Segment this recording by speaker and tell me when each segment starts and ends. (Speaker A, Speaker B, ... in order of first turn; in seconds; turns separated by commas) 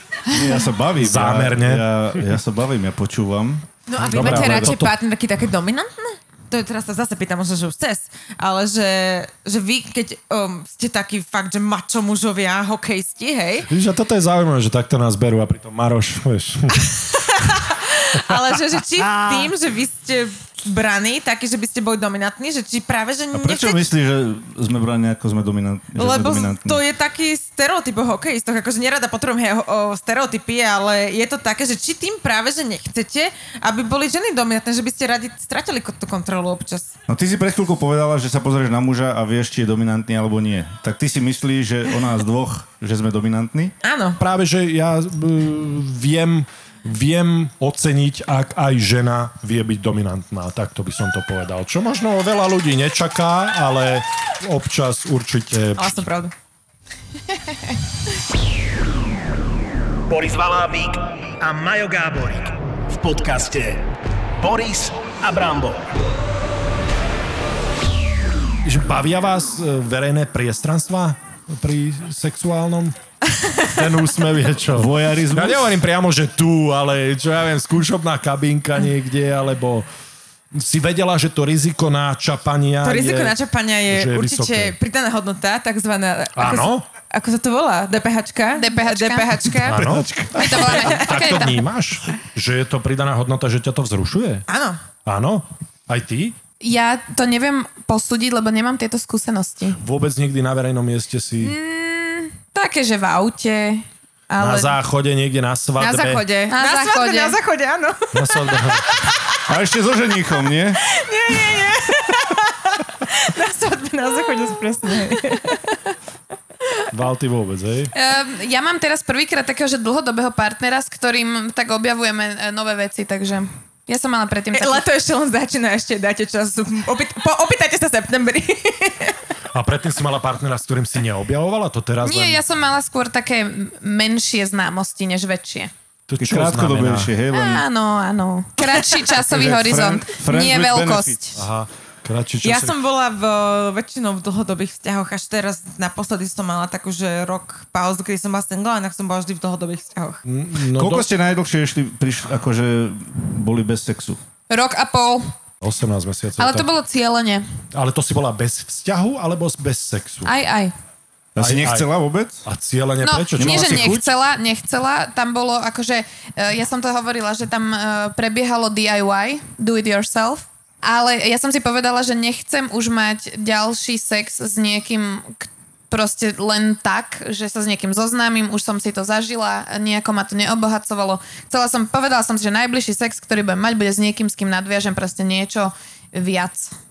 Speaker A: 0.3-4.7, Speaker B: 1.0-1.9, Speaker C: 3.9-13.7, Speaker B: 4.0-4.9, Speaker B: 13.7-16.9, Speaker C: 17.1-23.9, Speaker A: 23.3-26.8, Speaker C: 25.9-36.9, Speaker A: 37.1-43.7, Speaker C: 43.8-44.2, Speaker B: 44.2-56.0, Speaker C: 55.8-56.3, Speaker D: 60.1-63.8, Speaker D: 64.4-65.8, Speaker B: 68.6-73.0, Speaker B: 73.7-79.9, Speaker A: 74.7-75.7, Speaker B: 80.5-83.3, Speaker C: 82.8-89.8, Speaker B: 83.9-84.8, Speaker B: 86.3-86.8, Speaker E: 88.5-89.5, Speaker B: 89.6-94.4, Speaker E: 90.3-91.6, Speaker C: 90.4-91.3, Speaker C: 94.5-94.8, Speaker B: 95.0-96.3, Speaker E: 96.6-99.8, Speaker B: 99.8-101.5, Speaker E: 101.4-104.8, Speaker B: 104.4-106.2, Speaker C: 105.8-108.7, Speaker E: 106.5-107.3, Speaker B: 108.1-109.0, Speaker A: 109.5-110.8, Speaker C: 110.9-115.7, Speaker B: 116.9-117.9, Speaker E: 117.9-124.8, Speaker C: 124.5-129.2, Speaker B: 129.5-132.4, Speaker E: 132.0-135.7, Speaker B: 136.1-137.1, Speaker A: 136.2-137.6, Speaker E: 137.3-141.4, Speaker A: 139.0-141.2, Speaker B: 141.3-142.8, Speaker C: 142.4-150.2, Speaker B: 150.2-151.1, Speaker A: 150.7-154.2, Speaker E: 154.5-155.3, Speaker B: 155.6-156.7, Speaker E: 156.4-157.4, Speaker B: 157.7-160.3, Speaker E: 160.2-160.7, Speaker B: 161.3-161.9, Speaker A: 161.3-162.4, Speaker B: 162.4-164.1, Speaker E: 163.0-186.7, Speaker A: 163.4-164.0